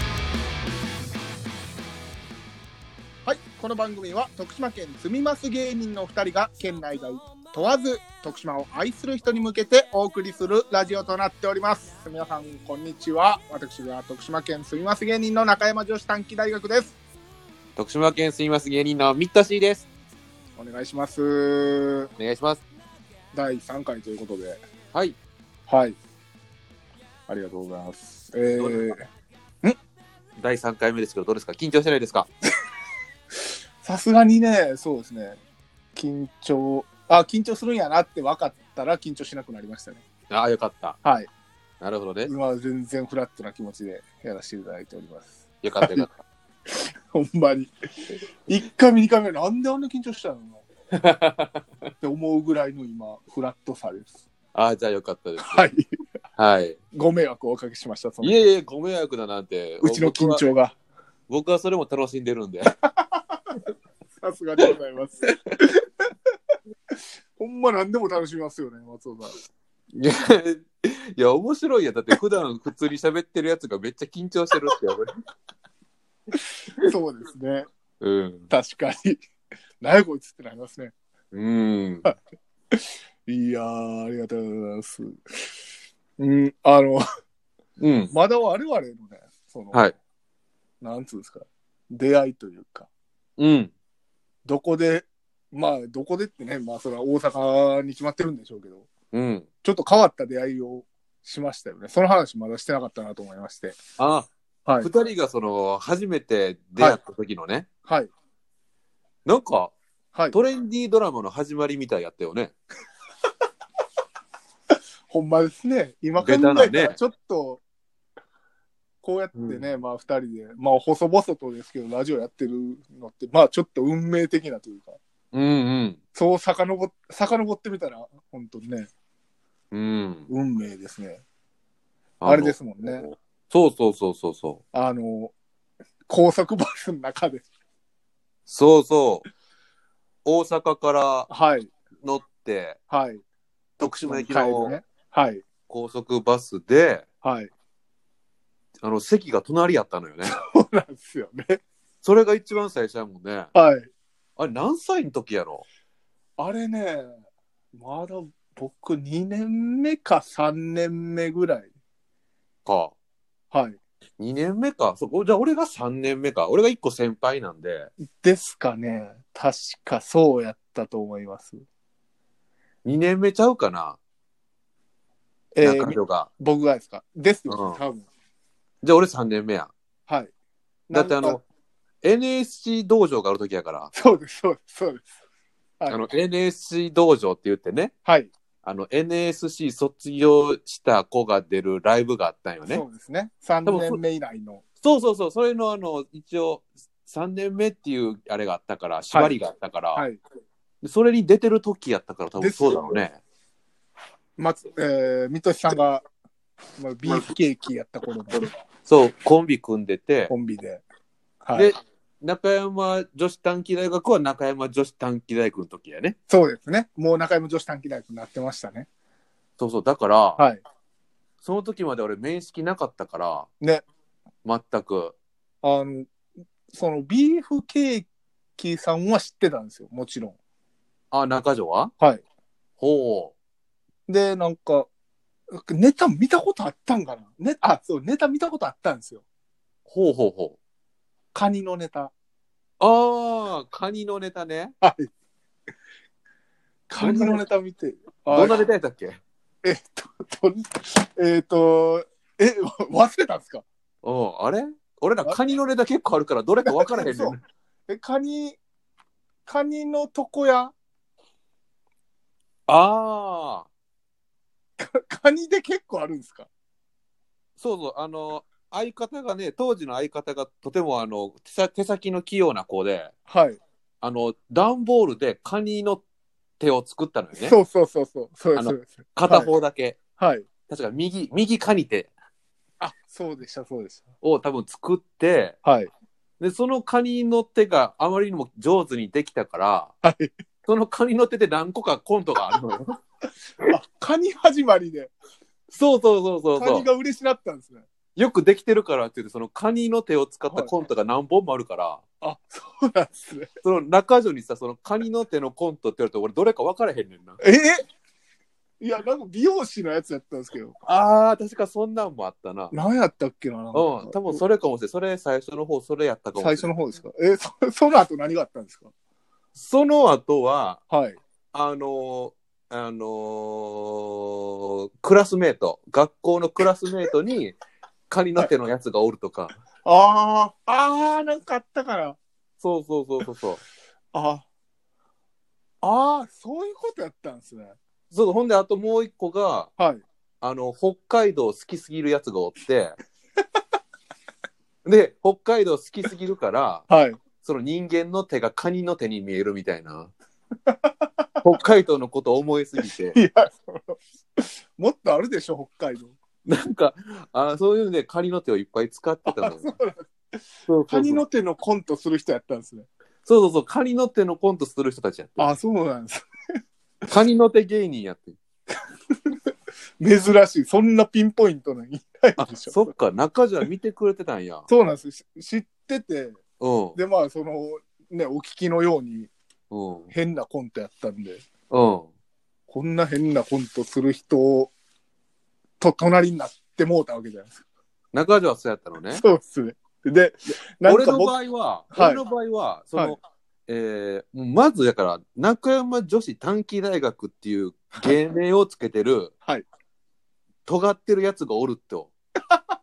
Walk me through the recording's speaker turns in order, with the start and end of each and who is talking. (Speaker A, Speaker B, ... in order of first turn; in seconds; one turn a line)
Speaker A: 3.2-16.9
Speaker B: 17.8-19.9
Speaker A: 20.6-22.1
Speaker B: 22.2-22.6
Speaker A: 23.3-24.6
Speaker A: 25.7-26.0
Speaker A: 27.3-29.0
Speaker B: 28.6-28.9
Speaker B: 30.4-32.3
Speaker A: 33.8-35.4
Speaker A: 35.9-40.0
Speaker B: 40.3-41.0
Speaker A: 41.0-41.3
Speaker B: 41.8-42.3
Speaker A: 42.2-46.1
Speaker B: 45.6-46.1
Speaker A: 46.7-47.7
Speaker A: 48.5-50.6
Speaker B: 51.0-51.6
Speaker A: 52.0-54.2
Speaker B: 54.5-55.7
Speaker A: 55.4-56.0
Speaker B: 56.4-56.8
Speaker A: 56.9-58.5
Speaker B: 58.2-60.4
Speaker A: 59.8-60.8
Speaker B: 61.3-62.7
Speaker A: 64.2-65.8
Speaker A: 67.3-69.3
Speaker B: 69.9-75.1
Speaker A: 76.8-77.7
Speaker B: 78.0-78.5
Speaker A: 78.5-79.2
Speaker A: 79.8-80.9
Speaker B: 81.3-82.1
Speaker A: 82.7-85.2
Speaker A: 86.2-87.0
Speaker B: 87.8-88.1
Speaker A: 88.1-89.8
Speaker A: 90.8-92.9
Speaker B: 93.4-93.7
Speaker A: 94.4-98.9
Speaker B: 99.1-99.5
Speaker A: 99.6-103.8
Speaker B: 104.0-104.3
Speaker B: 104.8-107.7
Speaker B: 109.2-109.7
Speaker B: 110.3-112.5
Speaker A: 115.1-117.6
Speaker B: 116.2-117.0
Speaker A: 119.0-125.0
Speaker B: 119.3-119.6
Speaker B: 125.3-126.0
Speaker A: 126.1-128.9
Speaker B: 129.7-130.3
Speaker A: 130.3-131.2
Speaker B: 132.2-134.6
Speaker A: 132.2-133.1
Speaker A: 134.7-135.3
Speaker A: 136.1-137.5
Speaker B: 138.5-139.2
Speaker B: 140.2-141.3
Speaker A: 141.3-141.7
Speaker B: 142.0-142.8
Speaker A: 142.9-143.2
Speaker B: 143.8-144.7
Speaker A: 143.8-145.4
Speaker B: 145.7-147.0
Speaker A: 147.2-147.5
Speaker B: 148.8-150.4
Speaker A: 150.3-151.6
Speaker B: 152.0-153.5
Speaker A: 153.5-153.9
Speaker B: 154.4-155.6
Speaker A: 156.4-157.2
Speaker A: 157.7-161.7
Speaker B: 162.7-162.9
Speaker A: 163.5-163.8
Speaker B: 164.2-167.9
Speaker A: 168.0-171.6
Speaker B: 172.8-174.0
Speaker A: 175.5-178.1
Speaker B: 175.6-176.3
Speaker B: 177.5-177.8
Speaker B: 178.8-179.7
Speaker A: 180.9-181.4
Speaker B: 180.9-181.4
Speaker B: 182.0-183.9
Speaker A: 183.9-185.1
Speaker B: 185.9-187.9
Speaker A: 188.0-188.3
Speaker B: 188.6-192.8
Speaker A: 192.6-194.6
Speaker B: 193.6-194.0
Speaker B: 194.8-200.0
Speaker A: 199.9-200.2
Speaker B: 200.8-203.2
Speaker A: 202.4-203.0
Speaker A: 204.4-206.0
Speaker A: 206.8-208.4
Speaker B: 208.8-210.3
Speaker A: 210.3-210.8
Speaker A: 211.4-211.7
Speaker B: 211.5-216.2
Speaker A: 216.3-218.9
Speaker B: 219.6-220.4
Speaker A: 220.4-220.6
Speaker B: 221.4-223.5
Speaker B: 224.4-225.2
Speaker A: 225.6-226.1
Speaker A: 226.7-230.4
Speaker B: 231.1-231.9
Speaker B: 232.8-233.3
Speaker A: 234.1-234.9
Speaker A: 235.5-239.2
Speaker B: 239.9-240.6
Speaker A: 241.3-242.1
Speaker B: 242.8-244.7
Speaker A: 244.8-245.1
Speaker A: 246.9-248.6
Speaker B: 247.0-247.4
Speaker B: 248.3-249.2
Speaker A: 249.6-253.6
Speaker B: 254.0-257.4
Speaker A: 256.6-257.4
Speaker A: 257.9-258.6
Speaker A: 259.4-260.7
Speaker B: 262.7-263.7
Speaker A: 264.8-266.5
Speaker B: 267.6-273.1
Speaker A: 273.3-273.6
Speaker B: 274.0-276.0
Speaker B: 276.6-277.6
Speaker A: 277.4-279.5
Speaker B: 278.5-280.0
Speaker A: 280.2-280.4
Speaker B: 280.7-282.1
Speaker A: 282.8-284.1
Speaker B: 284.2-285.6
Speaker A: 285.6-285.9
Speaker B: 286.4-289.9
Speaker A: 290.0-290.3
Speaker B: 290.6-292.9
Speaker A: 293.7-295.1
Speaker B: 295.7-296.9
Speaker A: 296.5-297.9
Speaker B: 298.1-302.0
Speaker A: 302.2-303.5
Speaker B: 303.6-307.4
Speaker A: 307.4-307.8
Speaker A: 308.8-310.8
Speaker B: 310.9-312.7
Speaker A: 312.7-314.4
Speaker B: 313.7-316.7
Speaker A: 316.4-318.9
Speaker B: 319.5-320.8
Speaker A: 320.9-321.2
Speaker B: 321.5-327.6
Speaker B: 328.1-329.5
Speaker A: 329.8-332.2
Speaker B: 332.6-333.6
Speaker A: 334.1-334.4
Speaker A: 335.8-337.8
Speaker B: 338.1-339.7
Speaker A: 339.8-340.0
Speaker B: 340.4-343.0
Speaker B: 344.8-346.9
Speaker A: 346.9-347.2
Speaker B: 347.4-350.1
Speaker A: 350.6-351.4
Speaker B: 351.4-353.2
Speaker A: 353.1-356.1
Speaker B: 356.4-359.7
Speaker A: 359.2-362.9
Speaker B: 360.7-361.2
Speaker B: 363.2-365.5
Speaker A: 365.4-366.2
Speaker B: 367.1-368.4
Speaker A: 370.0-372.9
Speaker B: 372.4-374.6
Speaker A: 374.7-376.4
Speaker B: 376.6-377.0
Speaker A: 376.9-379.3
Speaker B: 379.7-380.1
Speaker A: 380.1-381.4
Speaker B: 381.7-382.1
Speaker A: 382.7-384.7
Speaker A: 385.8-387.6
Speaker B: 388.1-389.2
Speaker A: 389.1-391.4
Speaker B: 390.8-399.3
Speaker A: 391.9-392.2
Speaker B: 400.7-402.1